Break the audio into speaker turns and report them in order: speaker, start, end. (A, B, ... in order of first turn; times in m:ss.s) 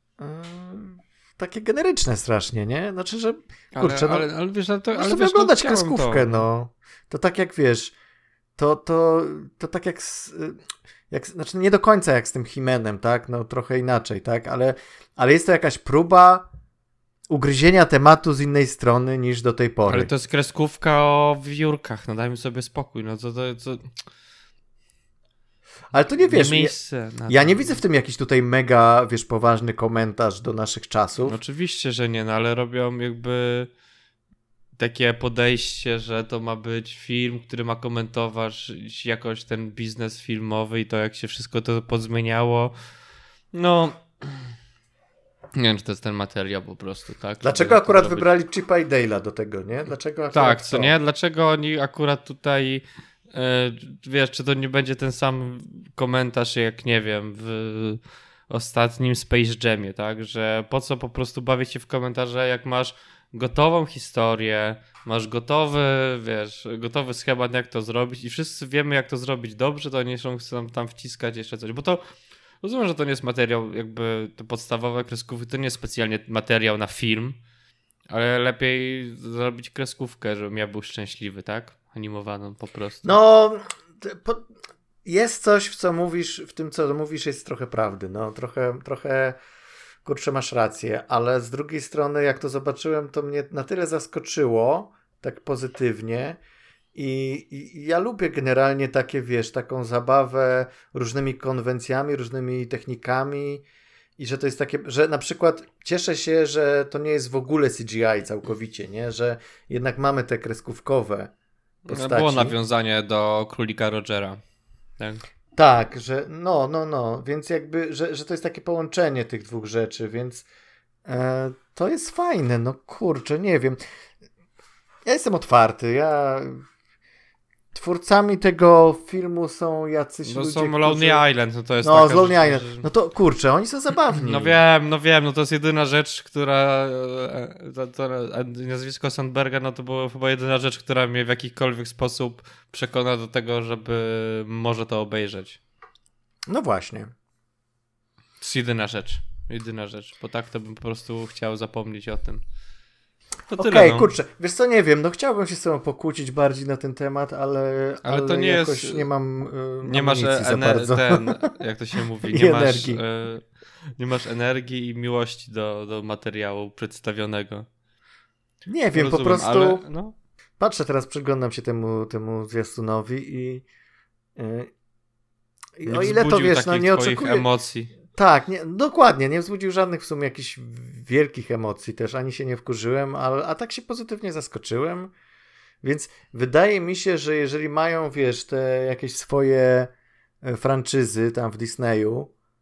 0:00.2-0:04.3 A
0:03.7-0:06.4 B
0:04.9-0:07.9 A
0:08.6-0:16.4 A
0:17.3-0:20.1 A
0:19.9-0:23.9 B
0:25.9-0:26.7 A
0:26.2-0:27.8 B
0:27.3-0:31.4 A
0:31.2-0:33.7 B
0:34.8-0:42.7 B
0:43.5-0:44.5 B
0:45.5-0:48.3 B
0:47.4-0:50.9 A
0:50.3-1:12.0 B
1:12.6-1:17.4 B
1:18.1-1:23.1 B
1:23.0-1:24.5 A
1:25.0-1:29.4 A
1:30.0-1:36.4 A
1:36.9-1:43.6 A
1:44.2-1:51.3 A
1:51.8-1:52.5 A
1:51.9-1:54.4 B
1:55.6-2:00.4 A
2:01.0-2:03.8 A
2:05.0-2:06.6 A
2:07.7-2:11.2 A
2:10.2-2:12.8 B
2:11.8-2:14.6 A
2:14.1-2:25.6 B
2:26.5-2:27.1 A
2:28.4-2:32.4 B
2:33.5-2:34.1 B
2:33.6-2:41.5 A
2:38.0-2:39.1 B
2:39.8-2:47.6 B
2:42.3-2:43.0 A
2:48.7-2:49.8 A
2:48.9-2:50.1 B
2:50.6-2:53.6 A
2:54.4-2:54.7 A
2:55.8-2:57.5 A
2:55.9-2:57.9 B
2:58.1-3:05.1 A
3:05.8-3:09.9 A
3:10.4-3:12.3 A